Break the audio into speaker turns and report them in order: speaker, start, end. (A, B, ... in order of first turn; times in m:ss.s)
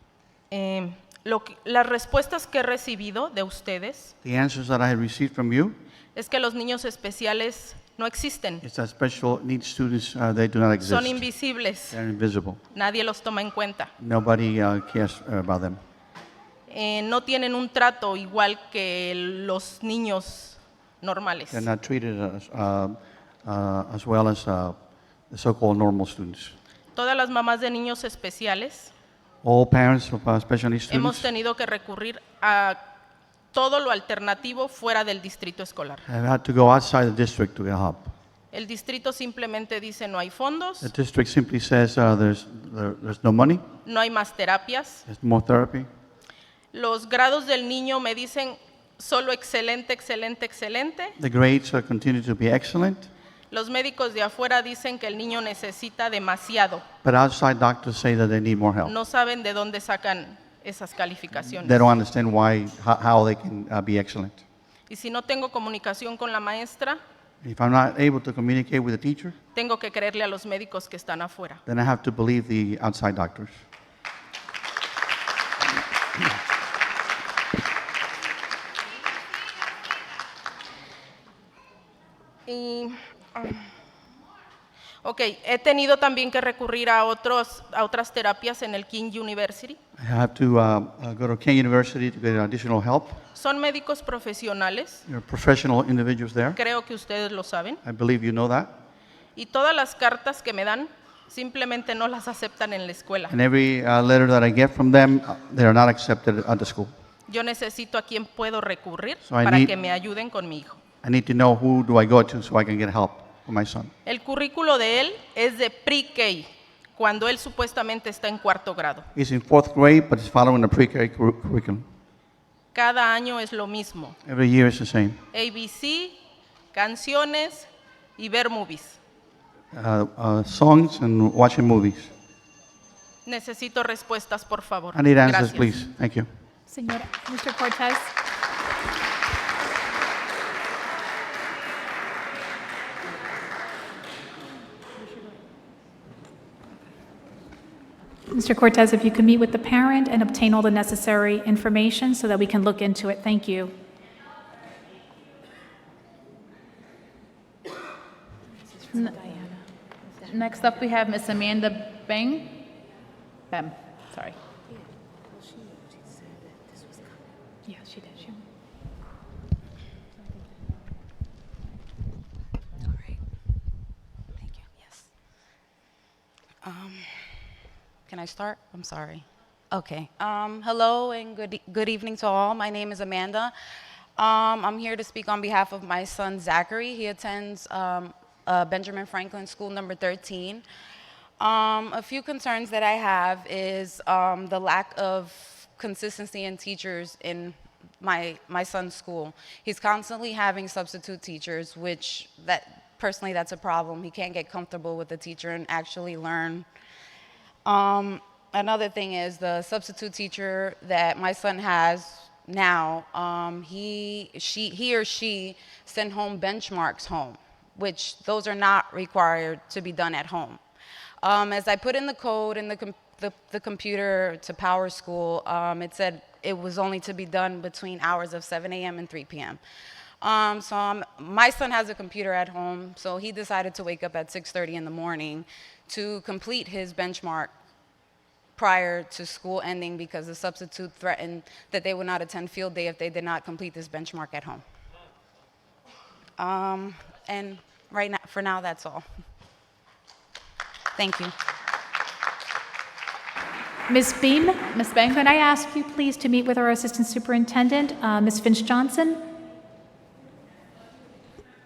0:00.5-0:04.1 A
0:04.2-0:05.8 B
0:06.1-0:08.6 A
0:08.6-0:11.3 B
0:10.8-0:12.0 A
0:11.9-0:12.6 B
0:12.7-0:13.9 A
0:14.0-0:15.8 B
0:16.7-0:21.6 A
0:21.5-0:24.8 B
0:25.3-0:26.6 B
0:26.9-0:28.9 A
0:29.4-0:31.3 B
0:30.9-0:32.8 A
0:33.5-0:36.0 A
0:36.0-0:38.1 B
0:38.5-0:40.9 A
0:40.8-0:43.6 B
0:43.8-0:45.0 A
0:45.1-0:45.9 B
0:46.7-0:51.2 A
0:51.2-0:53.1 B
0:53.5-0:56.8 A
0:57.0-0:58.9 B
0:58.8-1:01.9 A
1:01.6-1:04.4 B
1:04.9-1:07.0 A
1:07.4-1:09.3 B
1:09.5-1:11.6 A
1:11.6-1:13.6 B
1:22.5-1:23.7 A
1:25.0-1:29.8 A
1:30.0-1:33.2 B
1:33.3-1:35.0 A
1:35.1-1:36.6 B
1:36.6-1:37.8 A
1:37.8-1:38.7 B
1:39.3-1:43.3 A
1:43.3-1:46.9 B
1:47.3-1:50.8 A
1:49.3-1:49.7 B
1:51.0-1:53.9 B
1:54.0-1:59.0 A
1:59.1-2:01.8 B
2:02.7-2:04.2 A
2:04.2-2:05.2 B
2:05.3-2:06.2 A
2:06.7-2:09.0 A
2:09.7-2:12.1 B
2:13.2-2:15.8 A
2:14.9-2:16.3 B
2:16.7-2:18.1 C
2:28.3-2:33.7 C
2:38.9-2:39.3 D
2:40.2-2:42.7 D
2:43.5-2:44.4 D
2:47.6-2:48.4 C
2:54.4-2:55.1 E
2:56.6-2:57.3 E
2:58.1-3:03.5 E
3:04.2-3:10.6 E
3:11.4-3:26.6 E
3:27.6-3:40.6 E
3:41.2-3:49.6 E
3:50.2-3:57.5 E
3:58.6-4:04.6 E
4:06.4-4:09.0 E
4:11.0-4:11.3 E
4:13.9-4:19.2 C
4:14.7-4:15.1 D